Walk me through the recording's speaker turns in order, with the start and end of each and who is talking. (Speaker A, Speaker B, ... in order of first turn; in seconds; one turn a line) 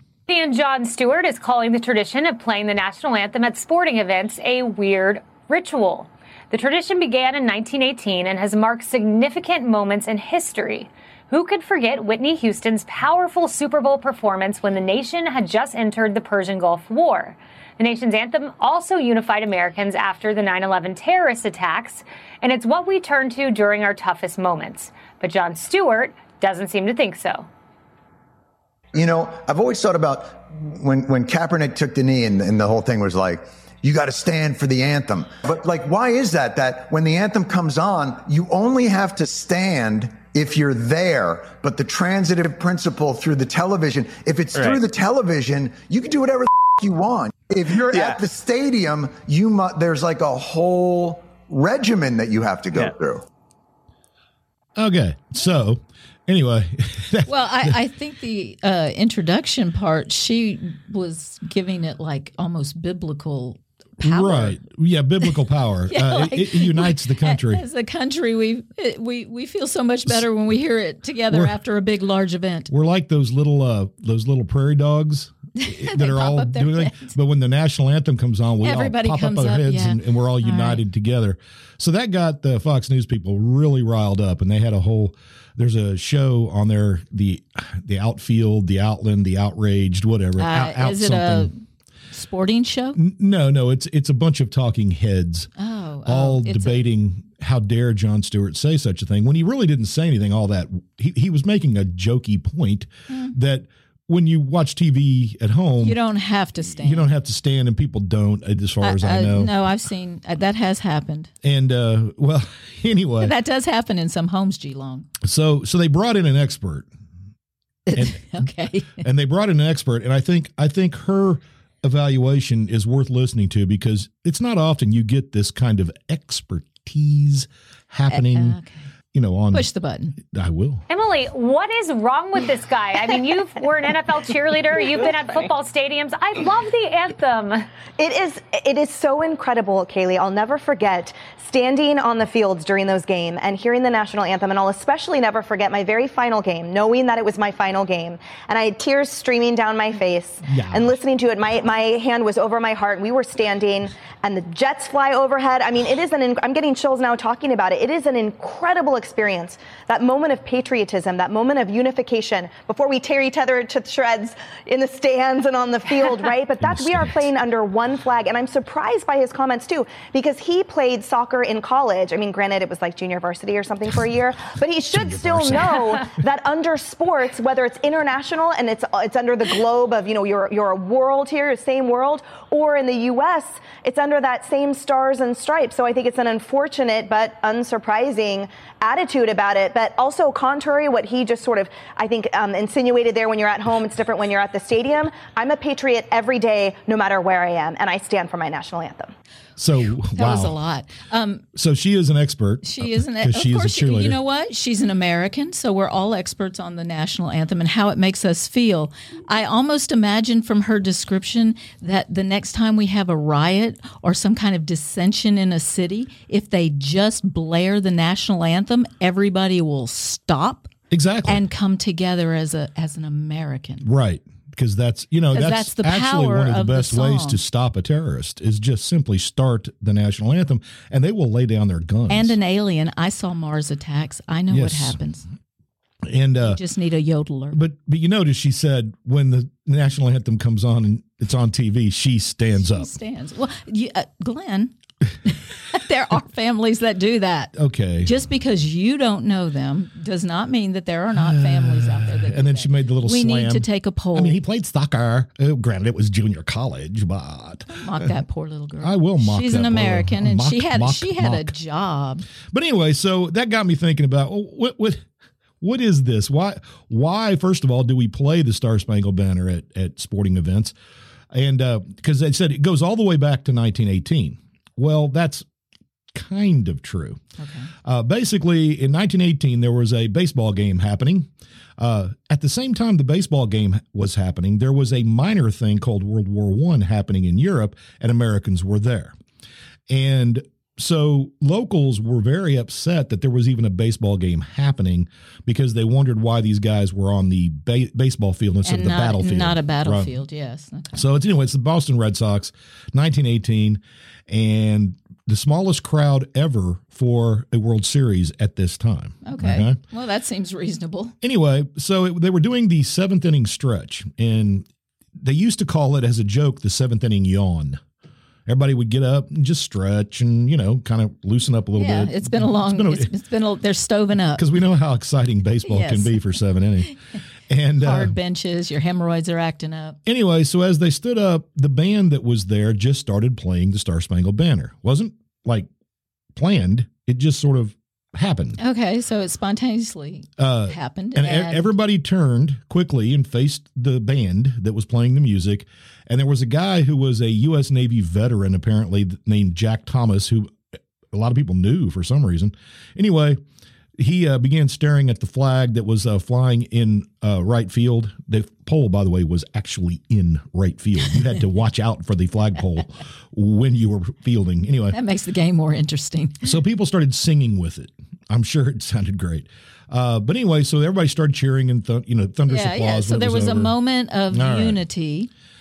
Speaker A: 0.3-27.5
Speaker B: 28.9-53.2
Speaker C: 54.8-57.8
Speaker D: 57.2-64.6
Speaker C: 64.0-67.6
Speaker D: 65.9-72.7
Speaker C: 72.7-91.5
Speaker D: 75.5-77.1
Speaker D: 78.6-80.8
Speaker D: 90.4-91.5
Speaker D: 92.1-93.0
Speaker C: 93.0-95.5
Speaker D: 95.6-96.8
Speaker C: 96.0-106.0
Speaker D: 103.1-103.3
Speaker D: 105.8-107.1
Speaker C: 106.8-109.5
Speaker D: 108.8-111.3
Speaker C: 111.4-113.3
Speaker D: 113.2-115.1
Speaker C: 115.2-116.9
Speaker D: 117.8-119.0
Speaker C: 118.0-118.4
Speaker C: 119.0-128.6
Speaker D: 128.1-128.8
Speaker C: 129.1-130.8
Speaker D: 129.5-130.2
Speaker A: 130.9-137.7
Speaker E: 138.0-199.1
Speaker C: 150.5-150.9
Speaker C: 166.6-167.2
Speaker C: 174.9-176.1
Speaker C: 199.6-200.6
Speaker D: 200.1-201.4
Speaker C: 201.5-204.2
Speaker D: 202.6-220.7
Speaker C: 220.9-221.4
Speaker D: 221.2-223.9
Speaker C: 223.8-232.3
Speaker D: 225.3-227.4
Speaker D: 232.1-235.2
Speaker C: 234.5-235.0
Speaker C: 236.0-236.6
Speaker D: 236.4-237.6
Speaker C: 237.5-242.9
Speaker D: 242.6-244.7
Speaker D: 245.2-254.4
Speaker C: 247.5-248.1
Speaker C: 251.1-257.7
Speaker D: 257.7-262.3
Speaker C: 258.8-261.5
Speaker C: 262.5-265.0
Speaker C: 265.6-270.7
Speaker C: 271.3-275.4
Speaker C: 276.1-277.2
Speaker D: 277.4-277.7
Speaker C: 277.8-289.1
Speaker C: 289.9-300.1
Speaker D: 298.6-301.0
Speaker C: 300.9-309.8
Speaker D: 309.2-311.1
Speaker C: 311.2-314.6
Speaker C: 315.2-317.8
Speaker C: 318.4-323.1
Speaker D: 321.8-324.4
Speaker C: 324.4-326.9
Speaker D: 325.7-326.2
Speaker C: 327.5-328.1
Speaker D: 327.8-330.0
Speaker C: 330.1-335.7
Speaker C: 336.3-338.6
Speaker D: 338.6-341.7
Speaker C: 340.4-350.5
Speaker C: 351.1-353.4
Speaker C: 354.0-365.0
Speaker D: 364.9-366.5
Speaker C: 366.4-373.7
Speaker D: 372.5-375.3
Speaker C: 374.3-374.8